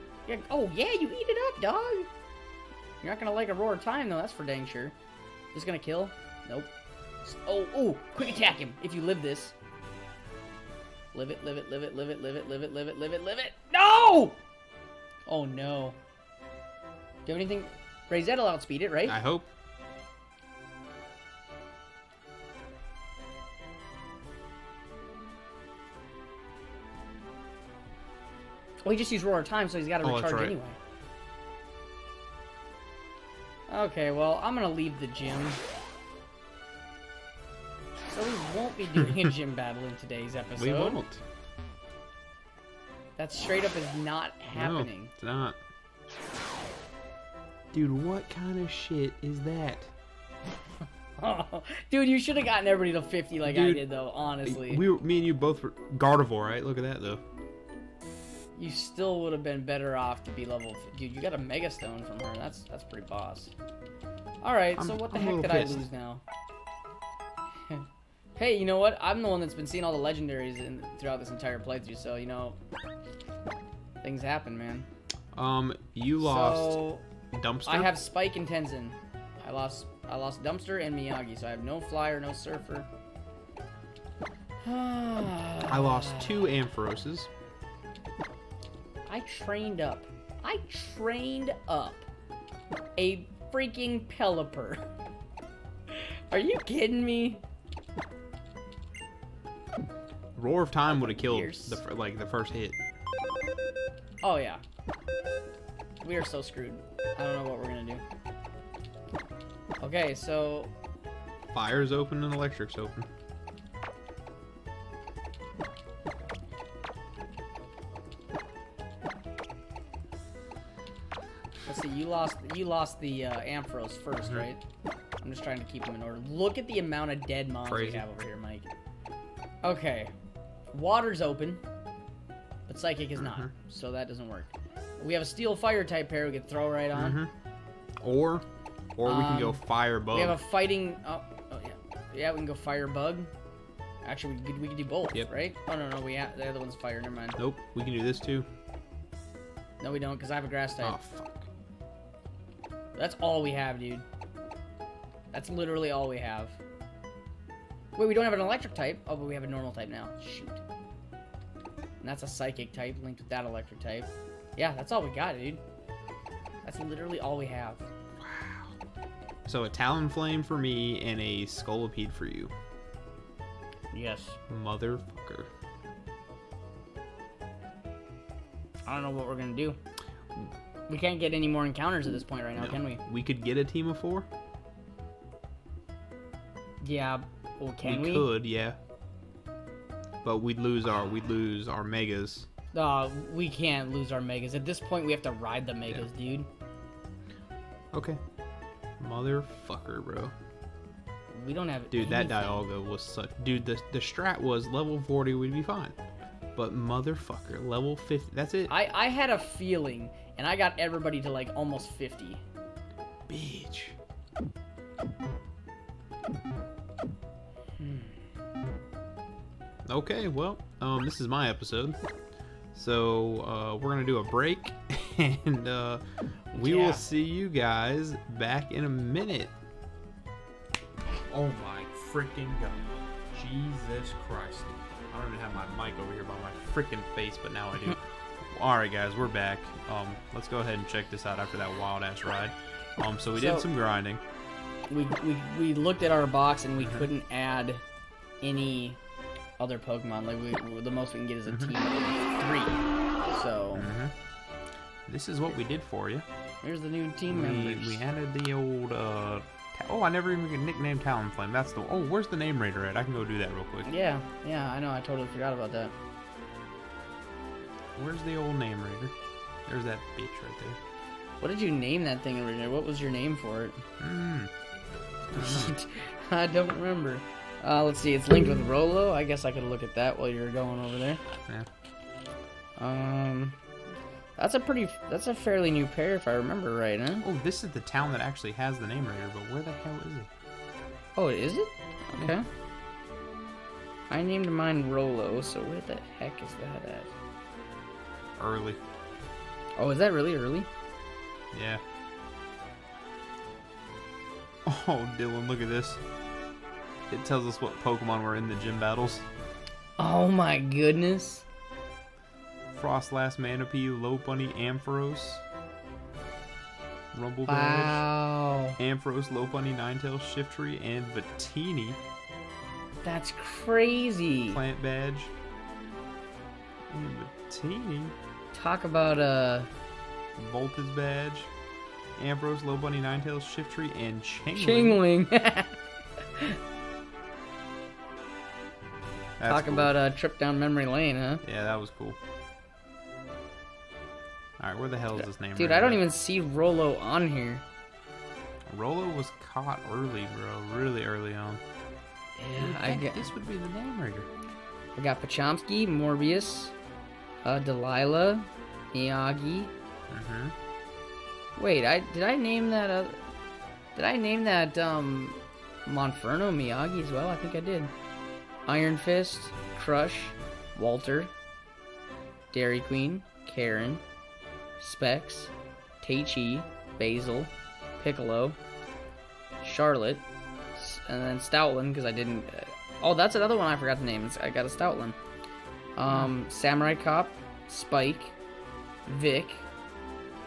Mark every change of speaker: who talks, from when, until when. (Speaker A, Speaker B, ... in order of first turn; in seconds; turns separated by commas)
Speaker A: 0.3-2.1, Speaker A: 3.0-4.9, Speaker A: 5.5-6.7, Speaker A: 7.2-9.5, Speaker A: 11.1-14.4, Speaker A: 15.3-16.0, Speaker A: 17.2-19.2, Speaker B: 19.1-19.5, Speaker A: 28.8-30.8, Speaker B: 30.0-30.5, Speaker A: 33.7-35.6, Speaker A: 38.1-41.0, Speaker B: 40.6-41.2, Speaker A: 43.2-45.1, Speaker B: 44.5-45.6, Speaker B: 47.7-49.9, Speaker A: 51.2-54.8, Speaker B: 53.4-53.8, Speaker B: 54.4-57.2, Speaker A: 58.5-63.5, Speaker A: 64.4-66.2, Speaker B: 64.8-65.8, Speaker A: 68.4-72.6, Speaker A: 74.0-74.9, Speaker B: 75.3-77.9, Speaker A: 76.2-77.0, Speaker A: 77.7-82.9, Speaker A: 84.6-86.5, Speaker B: 85.7-87.3, Speaker A: 89.1-92.1, Speaker A: 93.0-94.8, Speaker A: 95.9-97.4, Speaker B: 100.3-102.8, Speaker A: 100.9-101.8, Speaker A: 104.2-104.6, Speaker A: 106.0-108.0, Speaker A: 109.8-110.7, Speaker B: 111.5-113.1, Speaker A: 121.6-124.6, Speaker A: 125.2-128.7, Speaker B: 127.7-128.1, Speaker A: 129.6-130.1, Speaker A: 130.7-131.6, Speaker A: 132.7-137.2, Speaker B: 133.2-133.5, Speaker B: 136.9-137.3, Speaker B: 138.0-138.4, Speaker B: 138.9-140.4, Speaker A: 139.0-143.3, Speaker A: 144.0-147.4, Speaker B: 147.4-148.5, Speaker A: 149.8-151.0, Speaker B: 150.8-151.4, Speaker A: 152.9-154.0, Speaker A: 155.3-156.6, Speaker A: 157.9-160.6, Speaker A: 162.0-165.6, Speaker A: 166.6-167.9, Speaker B: 168.2-168.7, Speaker B: 169.4-172.5, Speaker A: 173.9-174.4, Speaker B: 174.5-175.5, Speaker A: 178.8-179.8, Speaker A: 180.9-183.0, Speaker B: 182.6-184.3, Speaker A: 186.8-188.3, Speaker B: 187.8-188.8, Speaker B: 190.2-192.5, Speaker A: 192.7-196.5, Speaker B: 197.9-198.2, Speaker B: 199.0-200.3, Speaker A: 201.3-202.6, Speaker B: 201.9-205.9, Speaker B: 206.6-208.7, Speaker A: 208.7-212.4, Speaker B: 213.3-213.9, Speaker A: 217.8-218.1, Speaker B: 219.8-222.0, Speaker B: 222.7-229.5, Speaker A: 226.5-227.0, Speaker B: 231.3-244.2, Speaker A: 243.3-243.7, Speaker A: 244.9-247.8, Speaker B: 246.8-247.1, Speaker A: 248.4-249.0, Speaker A: 249.6-253.9, Speaker B: 251.5-251.7, Speaker B: 253.7-254.1, Speaker B: 255.1-256.2, Speaker A: 256.6-258.0, Speaker B: 257.3-263.9, Speaker A: 263.9-265.9, Speaker B: 267.9-269.1, Speaker B: 269.6-270.8, Speaker A: 271.4-273.8, Speaker B: 274.0-274.5, Speaker B: 275.3-275.8, Speaker A: 275.3-281.2, Speaker A: 282.8-283.6, Speaker A: 284.4-287.2, Speaker B: 287.2-290.3, Speaker A: 291.1-292.5, Speaker A: 294.1-297.1, Speaker B: 298.4-298.8, Speaker A: 299.8-300.7, Speaker B: 301.5-301.8, Speaker B: 304.6-306.0, Speaker B: 307.1-309.2, Speaker A: 310.0-311.4, Speaker B: 312.7-315.4, Speaker B: 317.1-318.0, Speaker A: 317.5-318.8, Speaker B: 318.8-322.0, Speaker A: 323.0-324.6, Speaker B: 324.5-325.3, Speaker B: 326.9-328.1, Speaker A: 328.5-329.7, Speaker B: 330.4-331.5, Speaker B: 332.1-335.0, Speaker A: 334.5-335.8, Speaker B: 339.4-339.9, Speaker A: 339.5-341.4, Speaker B: 341.4-342.2, Speaker B: 344.6-346.0, Speaker A: 345.2-347.6, Speaker B: 348.7-351.6, Speaker A: 352.4-353.3, Speaker B: 352.6-354.3, Speaker A: 354.9-356.7, Speaker A: 357.4-359.7, Speaker B: 360.1-360.5, Speaker A: 361.6-363.2, Speaker A: 363.9-367.9, Speaker A: 368.7-371.3, Speaker A: 372.5-374.0, Speaker A: 374.8-378.6, Speaker A: 379.6-385.2, Speaker A: 385.9-388.3, Speaker A: 389.1-389.6